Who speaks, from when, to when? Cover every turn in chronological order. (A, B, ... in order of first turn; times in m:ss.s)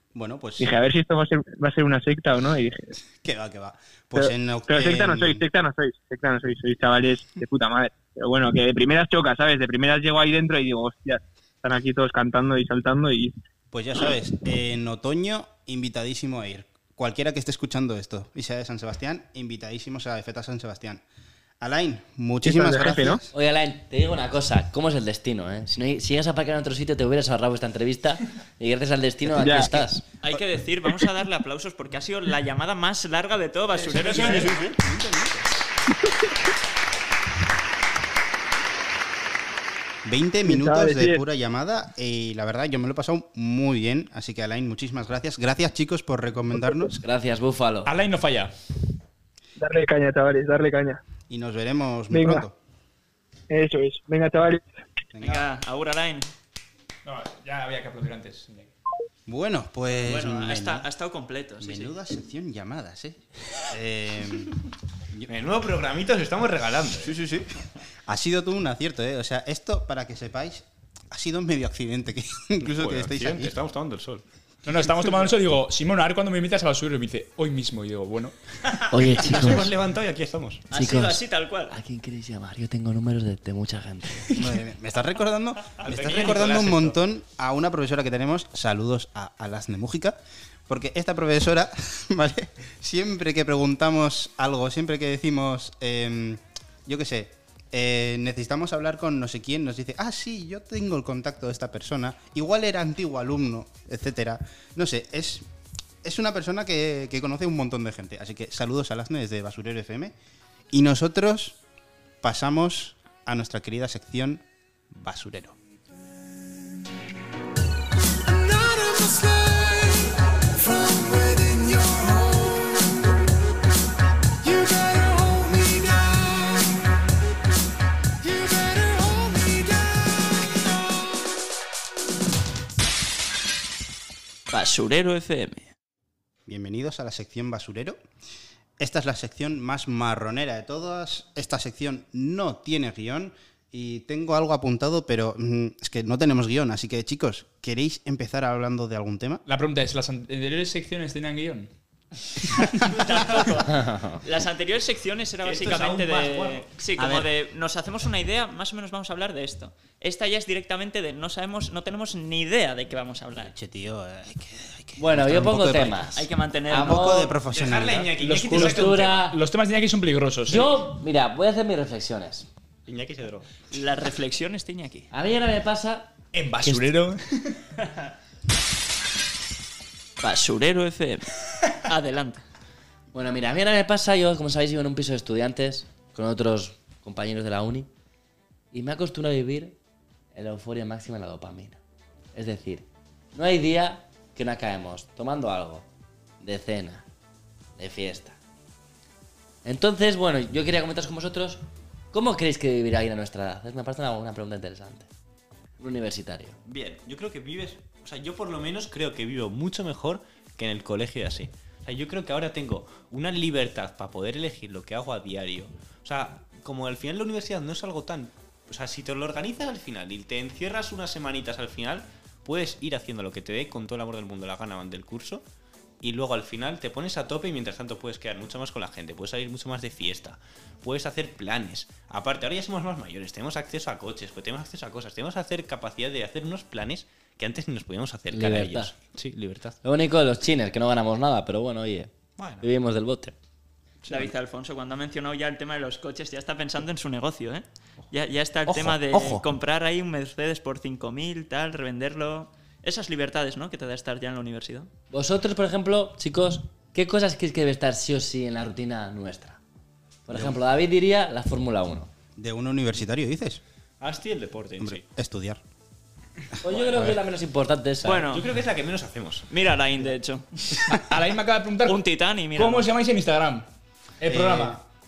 0:00.2-0:00.7 A
0:00.6-0:03.0 B
0:03.2-0:05.4 A
0:04.2-0:13.4 B
0:13.7-0:21.0 A
0:21.6-0:23.3 A
0:22.4-0:23.2 B
0:23.3-0:30.0 C
0:29.3-0:29.9 B
0:30.2-0:34.5 D
0:33.8-0:35.5 A
0:33.9-0:34.6 E
0:40.0-0:47.0 A
0:40.4-0:41.2 B
0:47.0-0:47.9 C
0:47.9-0:48.5 E
0:49.6-0:51.0 B
0:51.3-0:52.6 A
0:52.1-0:52.4 B
0:53.5-0:54.7 B
0:55.2-0:55.5 A
0:55.2-0:56.3 D
0:57.1-0:58.7 E
0:59.3-1:00.9 A
1:00.0-1:02.0 D
1:01.6-1:04.5 A
1:05.3-1:07.2 F
1:07.0-1:13.5 A
1:12.6-1:14.2 F
1:14.6-1:18.4 E
1:18.9-1:19.7 C
1:19.0-1:20.6 F
1:20.7-1:21.8 D
1:20.7-1:24.3 C
1:24.3-1:45.5 A
1:25.8-1:27.0 F
1:46.0-1:50.1 A
1:50.7-1:51.6 A
1:52.2-1:55.6 A
1:58.2-2:03.4 G
2:04.4-2:07.0 G
2:08.2-2:11.3 G
2:14.5-2:15.7 D
2:16.5-2:18.0 A
2:18.8-2:29.4 A
2:29.5-2:31.7 E
2:32.8-2:43.5 D
2:32.9-2:33.6 F
2:33.7-2:34.2 C
2:35.4-2:36.7 F
2:37.0-2:37.3 A
2:43.4-2:46.1 A
2:45.0-2:47.3 C
2:46.1-2:47.2 D
2:46.7-2:48.1 A
2:47.5-2:49.3 F
2:48.2-2:50.8 E
2:48.4-2:49.4 C
2:50.5-2:52.5 C
2:52.9-2:53.5 F
2:53.7-2:55.1 D
2:55.1-2:56.1 C
2:56.3-2:57.6 E
3:00.2-3:01.3 D
3:01.9-3:02.4 D
3:03.1-3:07.9 C
3:08.7-3:09.8 C
3:10.4-3:11.8 C
3:12.4-3:15.9 C
3:16.4-3:17.0 C
3:17.8-3:18.4 C
3:19.6-3:25.1 C
3:25.8-3:26.6 C
3:26.6-3:45.4 F
3:46.0-3:59.8 F
3:58.3-3:58.9 C
3:59.8-4:03.4 C
4:02.4-4:02.7 F
4:04.1-4:04.3 F
4:04.1-4:14.9 D
4:08.7-4:09.4 F
4:15.1-4:19.6 C
4:20.3-4:22.1 C
4:22.4-4:23.6 A
4:24.0-4:25.0 F
4:24.8-4:25.6 A
4:26.6-4:28.3 C
4:26.7-4:27.2 F
4:28.0-4:28.5 D
4:28.2-4:29.5 F
4:29.5-4:30.5 D
4:30.8-4:32.0 E
4:31.9-4:32.9 D
4:32.6-4:33.7 E
4:34.2-4:34.8 E
4:34.3-4:34.8 A